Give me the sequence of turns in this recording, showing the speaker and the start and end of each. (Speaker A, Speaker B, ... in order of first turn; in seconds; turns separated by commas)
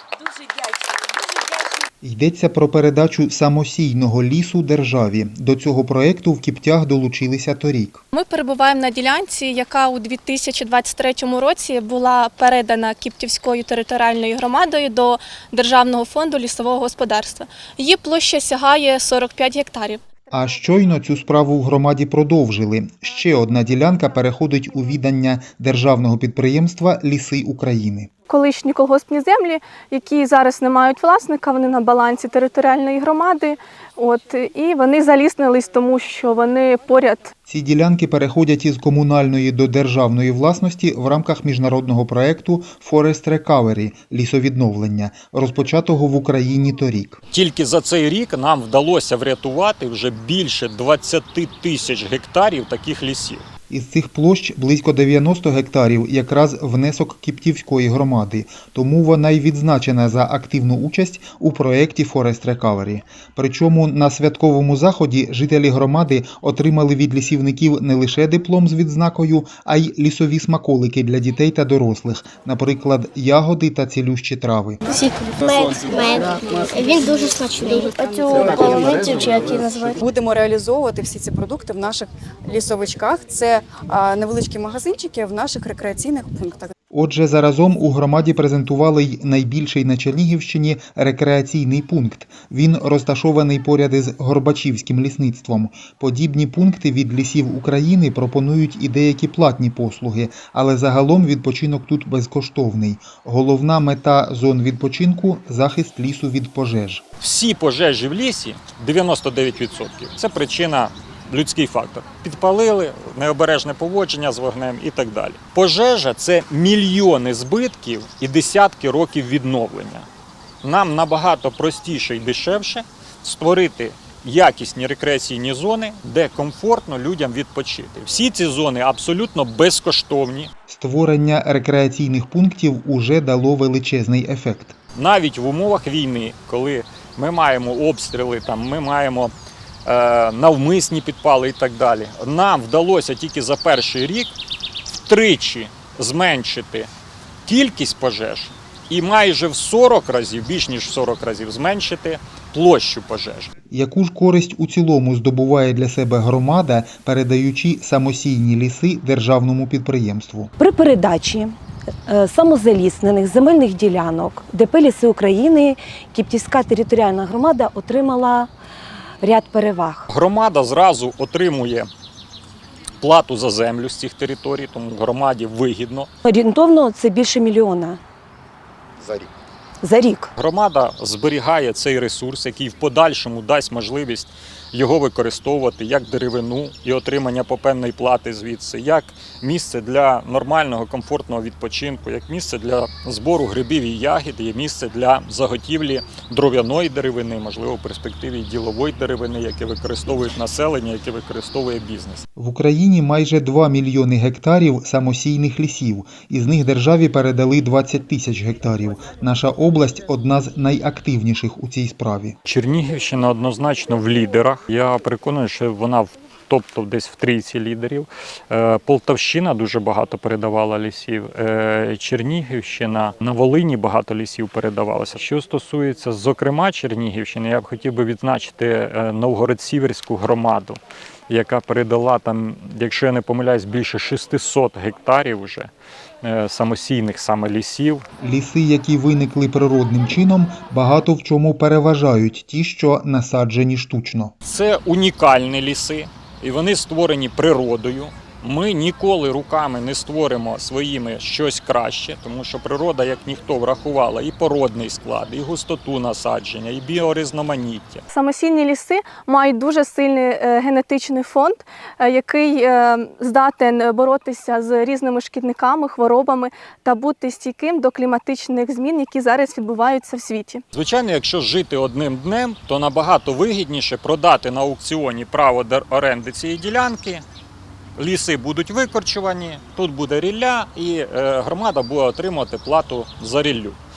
Speaker A: 2.0-8.0, Speaker B: 8.1-20.0, Speaker A: 20.3-28.1, Speaker B: 28.3-37.3, Speaker A: 37.5-47.2, Speaker C: 47.3-53.5, Speaker A: 53.7-74.8, Speaker D: 75.0-79.1, Speaker E: 76.8-77.1, Speaker E: 77.7-86.7, Speaker A: 86.9-107.0, Speaker C: 107.2-120.1, Speaker C: 120.6-130.5, Speaker A: 130.7-134.8, Speaker C: 134.9-139.3, Speaker C: 139.9-144.3, Speaker C: 144.9-146.9, Speaker C: 147.5-153.5, Speaker A: 153.7-160.5, Speaker F: 160.6-161.5, Speaker F: 162.1-168.5, Speaker F: 169.2-170.1, Speaker C: 170.1-171.9, Speaker C: 173.0-176.1, Speaker F: 176.2-178.0, Speaker F: 179.8-180.3, Speaker C: 180.4-202.2, Speaker A: 202.4-212.4, Speaker C: 212.4-235.7, Speaker C: 236.2-238.1, Speaker A: 238.2-244.3, Speaker C: 244.4-258.1, Speaker B: 258.1-270.6, Speaker C: 270.7-277.2, Speaker C: 278.0-283.8